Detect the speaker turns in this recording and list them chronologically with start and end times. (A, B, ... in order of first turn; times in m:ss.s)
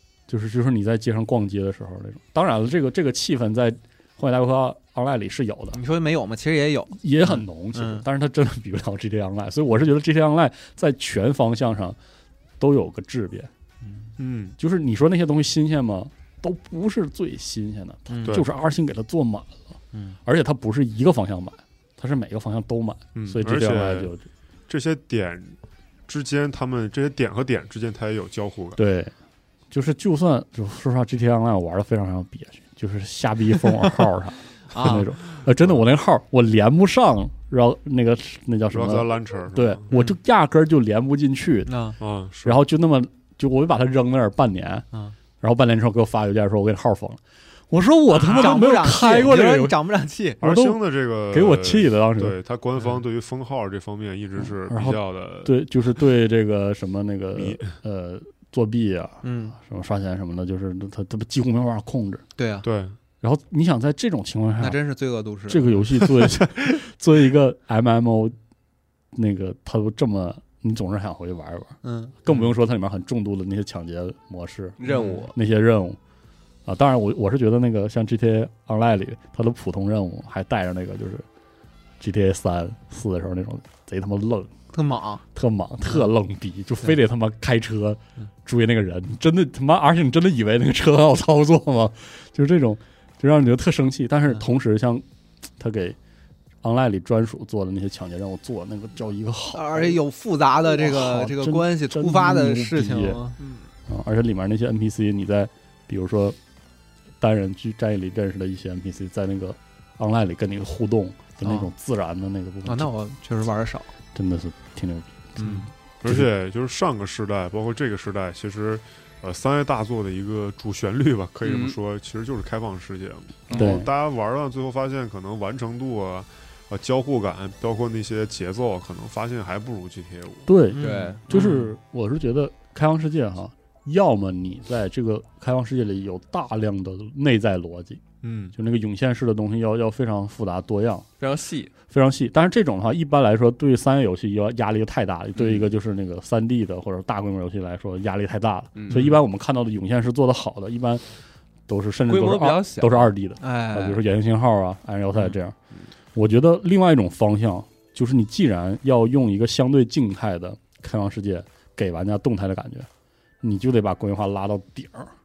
0:00.3-0:05.8 A
0:05.7-0:08.0 B
0:06.9-0:12.0 A
0:12.6-0:13.5 A
0:14.2-0:14.6 C
0:14.6-0:19.6 A
0:18.1-0:18.4 B
0:20.2-0:24.2 A
0:23.1-0:24.1 C
0:24.7-0:28.8 C
0:28.8-0:29.1 A
0:29.7-0:41.7 A
0:34.7-0:35.1 B
0:38.7-0:39.9 C
0:39.9-0:40.2 B
0:41.7-0:42.0 B
0:42.0-0:42.6 C
0:42.4-0:44.8 A
0:45.4-0:49.8 A
0:48.1-0:50.4 B
0:50.4-0:52.4 A
0:50.4-0:55.6 C
0:54.4-1:02.2 A
0:57.3-0:57.7 C
0:59.2-0:59.6 B
1:02.4-1:02.6 B
1:02.6-1:03.0 C
1:03.2-1:04.8 A
1:04.6-1:05.8 B
1:05.5-1:08.3 A
1:09.1-1:16.0 A
1:11.8-1:12.5 B
1:14.8-1:15.3 D
1:14.8-1:15.3 B
1:16.6-1:21.2 A
1:22.0-1:24.5 A
1:24.7-1:25.2 B
1:25.3-1:35.0 A
1:35.6-1:36.0 A
1:36.6-1:40.0 A
1:39.5-1:43.6 B
1:40.6-1:43.2 A
1:43.9-1:46.4 A
1:47.2-1:52.9 A
1:51.4-1:51.7 B
1:52.6-1:53.9 B
1:54.1-1:55.4 A
1:55.4-1:55.7 B
1:55.4-2:10.5 C
2:01.4-2:01.8 D
2:03.5-2:03.8 B
2:03.5-2:03.9 A
2:10.5-2:18.0 A
2:10.7-2:11.7 B
2:10.8-2:11.2 D
2:18.2-2:18.5 C
2:18.5-2:21.0 A
2:21.2-2:21.7 D
2:21.9-2:31.0 A
2:25.4-2:25.7 D
2:28.7-2:29.2 D
2:31.7-2:35.5 A
2:32.1-2:33.1 D
2:33.4-2:34.0 B
2:36.1-2:42.9 A
2:43.4-2:45.1 A